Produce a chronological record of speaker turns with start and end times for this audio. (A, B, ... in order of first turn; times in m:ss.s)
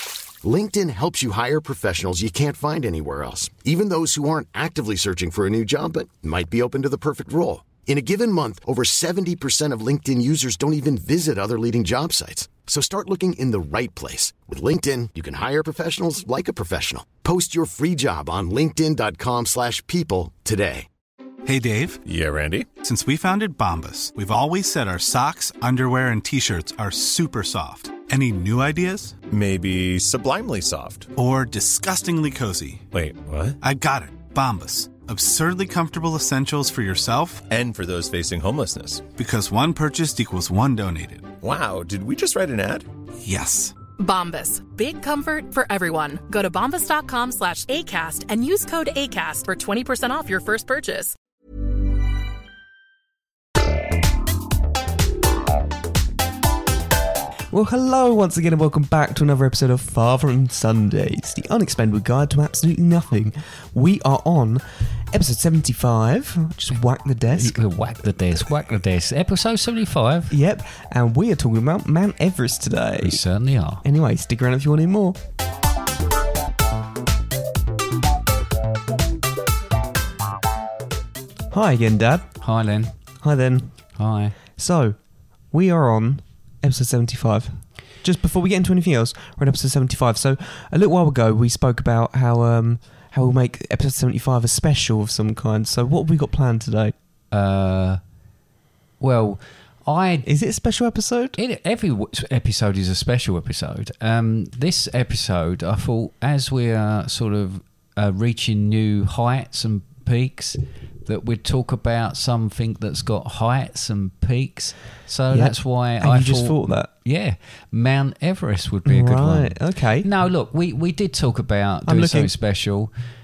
0:00.4-0:20.9 A
0:21.5-0:22.0 B
0:22.1-0:22.7 C
0:22.8-0:29.2 B
0:29.3-0:31.1 C
0:31.2-0:32.8 B
0:32.9-0:33.6 C
0:33.6-0:37.4 B
0:37.5-0:39.1 C
0:39.2-0:41.3 B
0:41.4-0:42.9 C
0:43.2-0:43.8 B
0:44.0-0:51.2 D
0:57.5-1:07.6 E
1:07.3-1:10.3 F
1:10.3-1:13.2 E
1:13.0-1:13.8 F
1:13.8-1:15.2 E
1:21.5-1:22.3 E
1:22.4-1:23.0 F
1:23.2-1:23.8 E
1:24.0-1:24.4 F
1:24.6-1:25.0 E
1:25.5-1:37.0 E
1:37.3-1:38.0 F
1:39.0-1:40.3 F
1:40.2-1:41.4 E
1:41.4-2:02.9 F
1:55.3-1:56.9 E
1:58.8-2:00.1 E
2:01.9-2:02.3 E